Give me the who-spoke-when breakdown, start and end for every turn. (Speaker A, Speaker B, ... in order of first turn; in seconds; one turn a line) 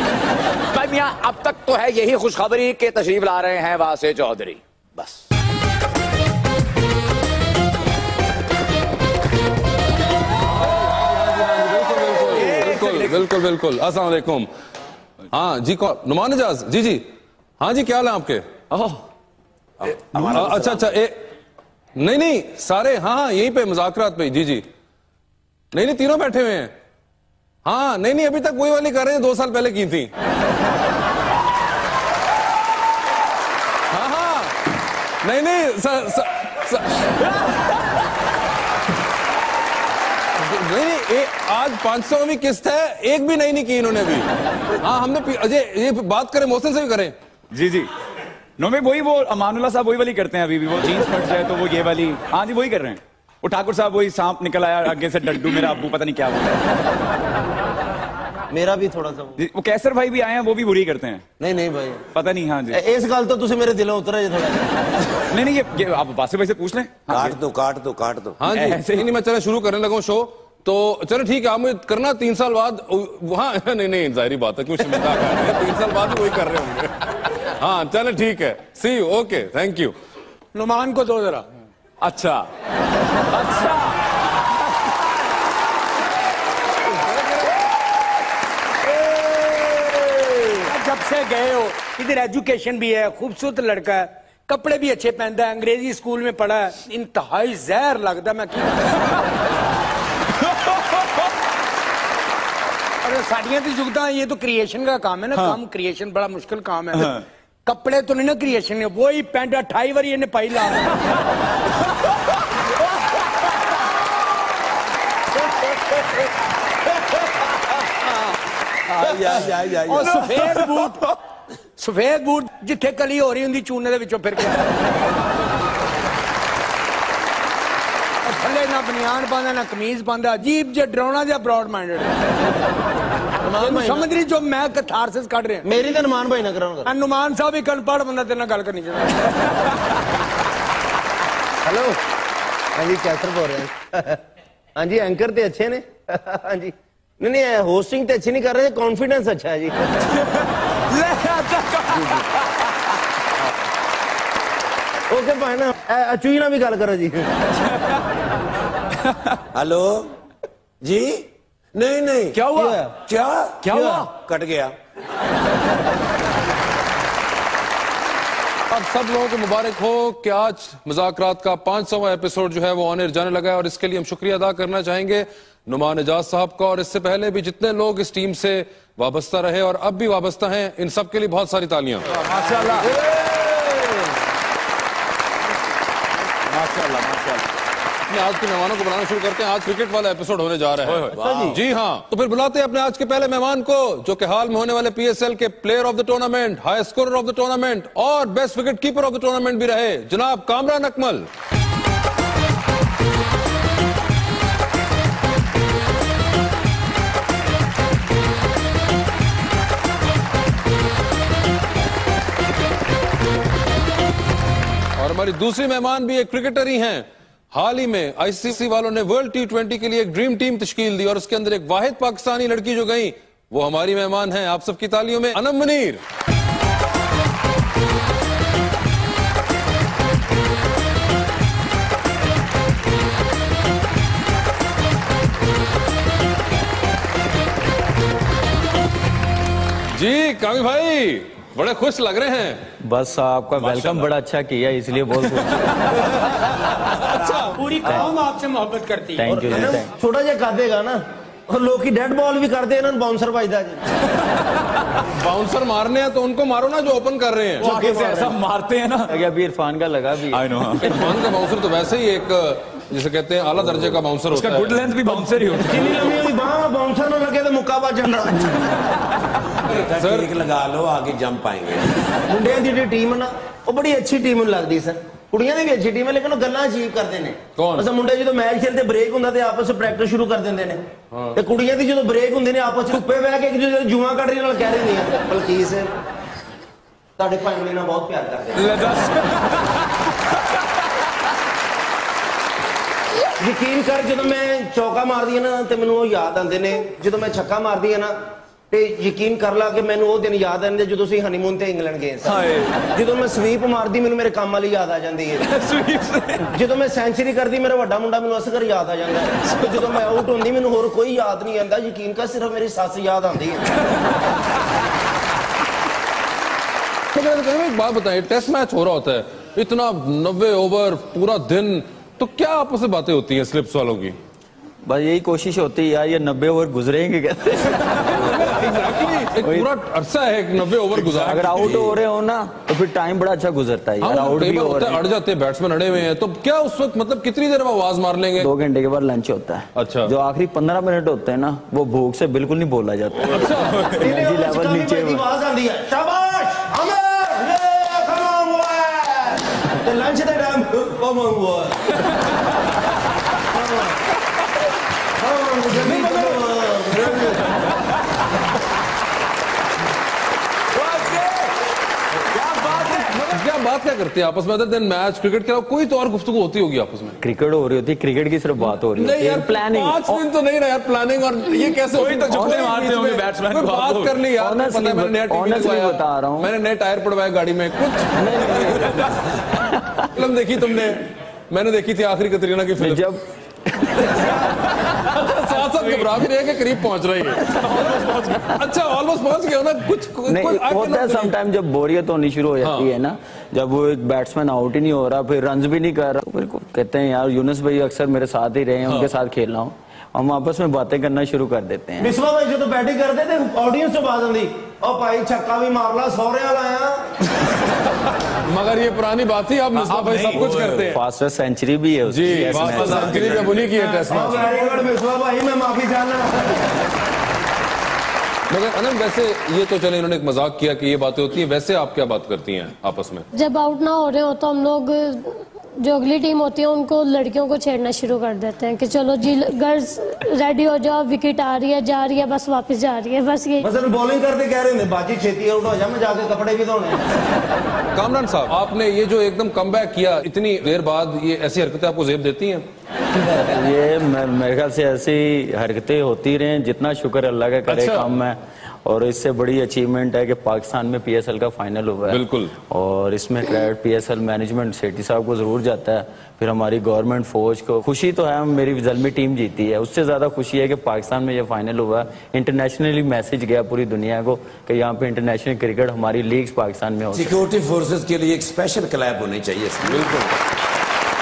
Speaker A: 0.7-5.2
Speaker B: 10.7-14.5
Speaker A: 12.2-13.2
Speaker B: 15.3-17.0
Speaker B: 17.6-18.4
Speaker A: 18.7-19.0
Speaker C: 19.8-20.9
Speaker B: 20.1-21.1
Speaker B: 22.0-24.6
Speaker B: 25.7-26.7
Speaker B: 27.6-30.1
Speaker B: 33.9-34.6
Speaker B: 35.2-37.1
Speaker B: 40.4-44.3
Speaker B: 44.8-47.1
Speaker D: 47.5-47.9
Speaker D: 48.6-56.7
Speaker E: 58.5-59.4
Speaker D: 59.4-61.2
Speaker E: 61.4-62.0
Speaker D: 62.1-62.8
Speaker E: 62.7-64.7
Speaker D: 65.3-67.4
Speaker C: 67.1-68.4
Speaker B: 68.4-79.9
Speaker D: 68.5-69.1
Speaker F: 80.5-81.5
Speaker D: 82.2-82.4
Speaker F: 90.6-99.2
Speaker F: 103.0-111.0
Speaker C: 119.0-119.5
Speaker E: 119.2-120.4
Speaker F: 119.8-121.1
Speaker F: 121.8-124.7
Speaker F: 128.2-132.1
Speaker E: 133.4-134.1
Speaker F: 133.5-135.7
Speaker E: 135.6-136.9
Speaker F: 136.8-139.4
Speaker E: 141.7-142.0
Speaker E: 142.8-144.2
Speaker E: 144.8-150.1
Speaker D: 151.0-151.9
Speaker E: 151.9-152.3
Speaker E: 155.1-157.3
Speaker C: 159.5-160.1
Speaker C: 160.8-162.4
Speaker D: 162.4-162.7
Speaker E: 162.4-163.0
Speaker C: 163.0-164.7
Speaker E: 163.6-164.1
Speaker F: 163.7-164.0
Speaker B: 168.7-183.2
Speaker D: 182.3-182.9
Speaker D: 186.6-187.4
Speaker B: 188.1-201.3
Speaker E: 191.2-191.6
Speaker B: 215.0-226.0
Speaker B: 239.9-242.7
Speaker G: 242.8-246.0
Speaker B: 243.6-244.1
Speaker F: 247.5-249.3
Speaker G: 247.8-248.1
Speaker G: 249.2-249.9
Speaker E: 249.2-253.8
Speaker B: 255.2-257.7
Speaker G: 257.6-258.4
Speaker D: 257.6-259.1
Speaker G: 259.1-260.4
Speaker D: 260.3-261.1
Speaker B: 260.8-265.1
Speaker D: 264.3-266.2
Speaker E: 265.6-268.8
Speaker B: 269.7-270.4
Speaker C: 269.7-271.9
Speaker E: 272.3-280.8
Speaker B: 277.6-277.9
Speaker B: 281.1-281.4
Speaker E: 281.4-285.9
Speaker E: 287.2-288.8
Speaker D: 288.6-289.7
Speaker E: 293.4-298.2
Speaker E: 298.7-305.4
Speaker D: 302.2-302.8
Speaker D: 305.4-306.5
Speaker E: 306.5-313.7
Speaker B: 317.1-324.2
Speaker G: 324.9-328.6
Speaker B: 328.1-331.8
Speaker G: 329.4-329.7
Speaker G: 331.1-335.0
Speaker B: 334.0-338.5
Speaker G: 338.4-345.2
Speaker B: 339.8-340.1
Speaker B: 343.3-343.9
Speaker E: 344.0-351.9
Speaker E: 353.5-354.0
Speaker E: 355.2-357.4
Speaker B: 355.9-356.4
Speaker B: 356.9-357.2
Speaker D: 360.9-361.5
Speaker D: 362.4-363.3
Speaker B: 363.0-367.2
Speaker G: 367.2-370.2
Speaker B: 368.8-378.9
Speaker D: 371.9-374.2
Speaker G: 374.4-376.5
Speaker G: 378.2-379.8
Speaker B: 380.1-383.0
Speaker G: 382.8-384.4
Speaker B: 384.9-391.3
Speaker D: 388.1-388.4
Speaker G: 390.3-402.1
Speaker B: 392.6-392.9
Speaker E: 402.0-407.1
Speaker B: 408.4-411.0
Speaker G: 410.7-413.4
Speaker B: 412.1-414.5
Speaker C: 412.7-413.6
Speaker F: 413.7-414.9
Speaker E: 414.1-416.7
Speaker B: 418.5-423.3
Speaker H: 423.3-433.7
Speaker E: 433.6-437.0
Speaker B: 437.9-442.7
Speaker G: 443.3-467.4
Speaker B: 447.7-448.1
Speaker B: 452.1-452.5
Speaker C: 467.1-470.1
Speaker B: 469.8-470.3